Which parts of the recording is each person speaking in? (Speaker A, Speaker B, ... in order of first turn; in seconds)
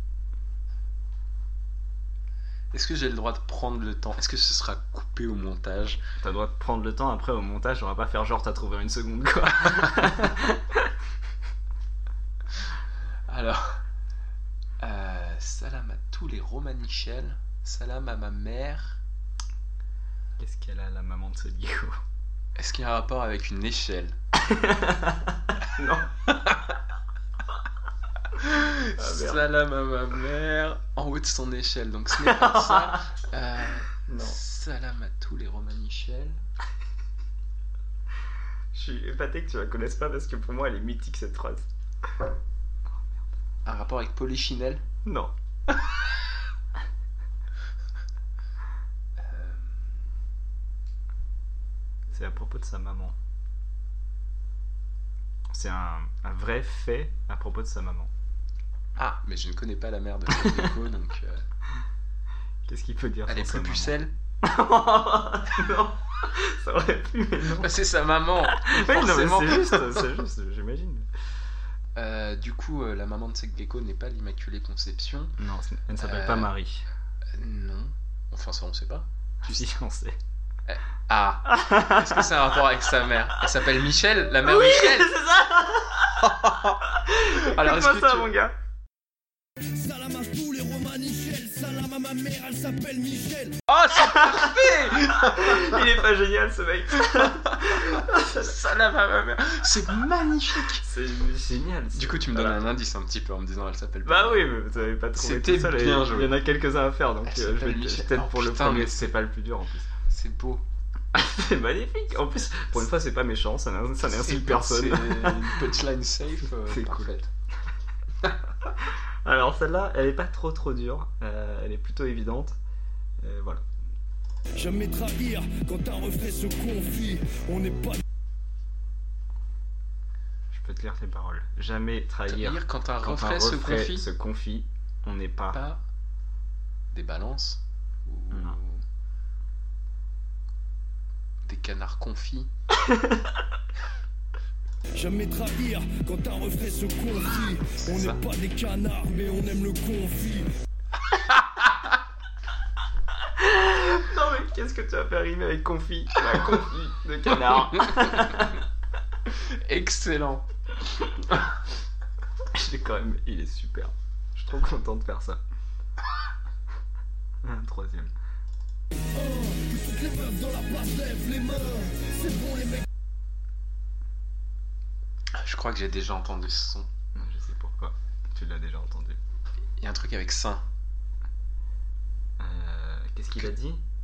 Speaker A: 2.7-6.0, 13.3-13.8, 14.8-19.0, 22.6-24.2, 26.3-26.6, 28.3-36.4, 43.6-44.8, 49.2-50.1, 59.0-61.4, 63.3-64.1, 67.6-70.1, 72.0-75.4, 76.0-76.5, 77.4-79.7, 80.7-85.1, 86.2-88.3, 93.7-95.9, 97.1-100.8, 101.9-104.5, 105.1-106.3, 107.2-109.1, 110.1-110.6, 114.1-117.3, 132.3-134.1, 135.5-135.8, 136.9-138.8, 141.5-142.5, 147.7-148.2, 151.1-152.0, 157.4-158.3, 159.3-160.5, 161.2-161.5, 175.3-176.9, 179.8-180.6
Speaker B: 6.2-10.9, 20.4-22.0, 24.3-26.1, 29.0-29.4, 32.1-33.0, 34.1-34.4, 38.7-41.7, 45.0-45.3, 52.1-53.2, 55.5-58.1, 62.6-67.8, 68.5-71.1, 75.4-76.9, 79.5-80.2, 81.5-82.4, 84.4-88.5, 93.9-98.6, 100.7-102.7, 104.0-109.9, 111.1-115.6, 116.7-117.1, 118.8-122.6, 123.2-123.7, 130.5-135.6, 138.3-138.6, 142.8-143.3, 153.3-158.6, 162.5-165.4, 167.4-168.1, 177.1-179.2, 182.4-183.8
Speaker C: 89.6-93.6, 124.6-128.0, 144.9-150.5, 169.0-172.9